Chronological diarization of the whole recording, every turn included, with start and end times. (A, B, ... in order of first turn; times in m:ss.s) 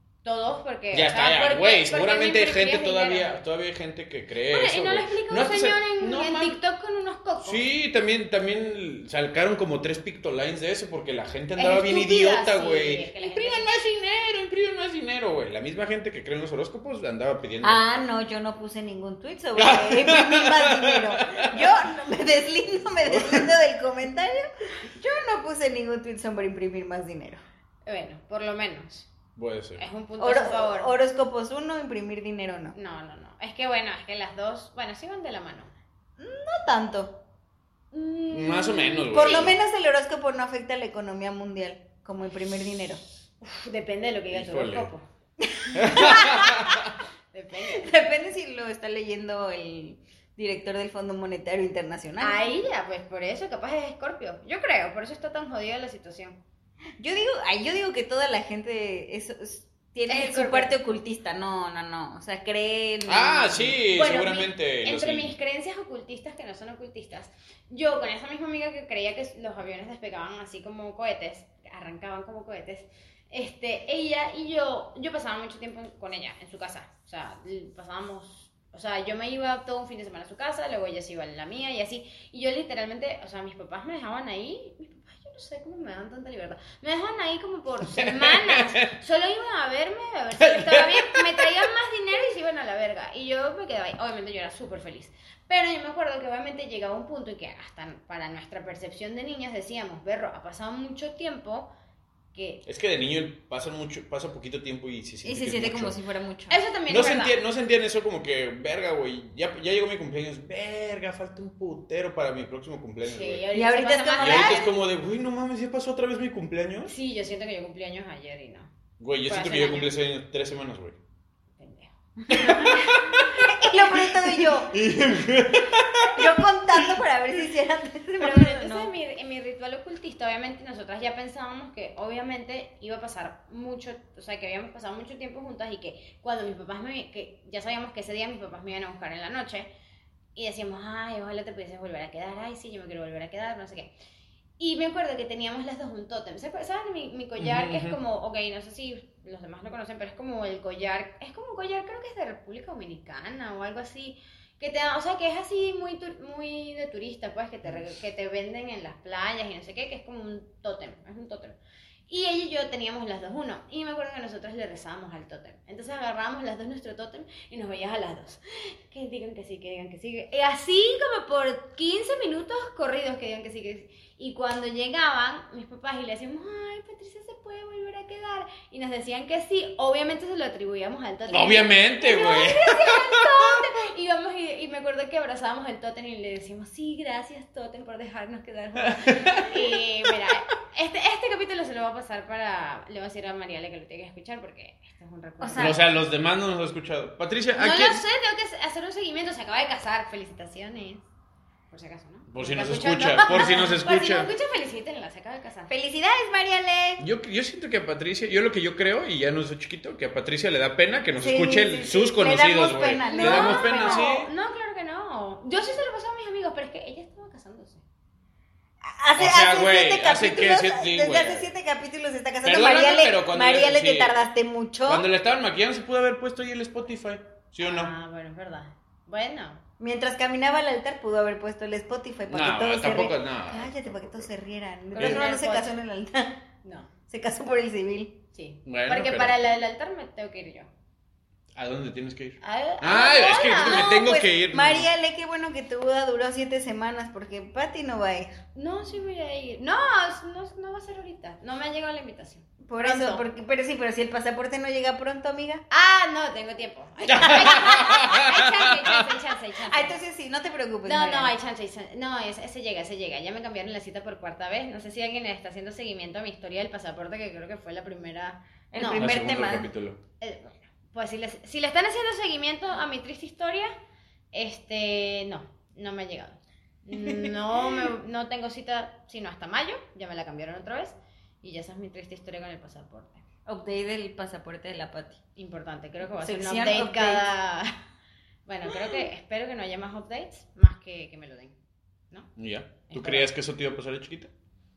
0:00.2-0:03.3 A
0:00.9-0:06.6 B
0:04.5-0:07.6 A
0:07.4-0:17.8 B
0:11.6-0:13.7 A
0:17.6-0:27.4 C
0:19.5-0:21.8 B
0:23.0-0:23.5 B
0:27.8-0:29.1 A
0:29.4-0:29.8 B
0:29.8-0:30.9 A
0:30.2-0:32.7 C
0:32.7-0:35.7 A
0:36.2-0:37.2 C
0:37.9-0:39.5 A
0:38.3-0:39.6 B
0:39.1-0:43.0 C
0:43.4-0:45.0 A
0:44.3-0:44.9 B
0:45.4-0:46.7 C
0:45.7-0:46.9 B
0:47.3-0:47.9 A
0:47.6-0:52.5 C
0:52.2-0:56.4 A
0:57.0-1:03.8 C
1:00.1-1:00.7 A
1:03.1-1:05.3 B
1:03.9-1:41.7 A
1:27.9-1:28.9 B
1:30.4-1:31.7 B
1:42.3-1:42.6 A
1:42.6-1:46.0 B
1:45.2-1:46.6 C
1:46.5-1:47.4 A
1:46.9-1:53.4 B
1:53.0-1:54.8 A
1:53.5-1:54.6 C
1:54.2-1:56.9 B
1:56.9-1:58.7 A
1:59.0-2:01.0 B
1:59.3-1:59.9 A
2:01.6-2:03.7 A
2:02.3-2:07.0 B
2:02.3-2:02.6 C
2:03.4-2:04.8 C
2:06.1-2:08.9 C
2:08.2-2:19.7 A
2:20.4-2:23.9 A
2:24.6-2:41.6 A
2:27.4-2:28.0 B
2:42.1-3:15.8 A
3:01.3-3:03.6 B
3:08.8-3:09.6 B
3:15.4-3:15.8 C
3:15.6-3:18.0 B
3:17.6-3:21.1 A
3:21.7-3:25.7 A
3:22.3-3:24.3 B
3:25.7-3:27.0 C
3:27.0-3:34.3 B
3:31.2-3:34.0 C
3:33.1-3:37.8 A
3:38.8-3:45.0 C
3:39.2-3:41.5 B
3:42.4-3:44.1 B
3:44.8-3:47.9 B
3:47.6-3:49.6 A
3:49.8-3:56.4 C
3:52.3-3:54.3 B
3:54.9-3:55.7 A
3:55.0-3:55.3 B
3:56.6-3:56.9 A
3:57.1-3:58.2 C
3:58.3-4:00.7 A
3:58.6-3:59.4 B
4:01.5-4:04.9 B
4:02.4-4:03.9 A
4:03.6-4:08.4 C
4:08.5-4:13.2 A
4:12.6-4:15.6 C
4:15.7-4:20.0 A
4:17.0-4:19.1 B
4:17.2-4:17.6 C
4:19.6-4:21.3 C
4:20.8-4:29.1 A
4:28.7-4:29.7 C
4:28.8-4:30.0 B
4:30.2-4:33.7 A
4:34.3-4:43.2 A
4:43.4-4:45.2 C
4:45.4-4:47.8 A
4:46.2-4:47.3 C
4:48.4-4:51.6 A
4:52.4-4:54.3 B
4:52.9-4:53.3 A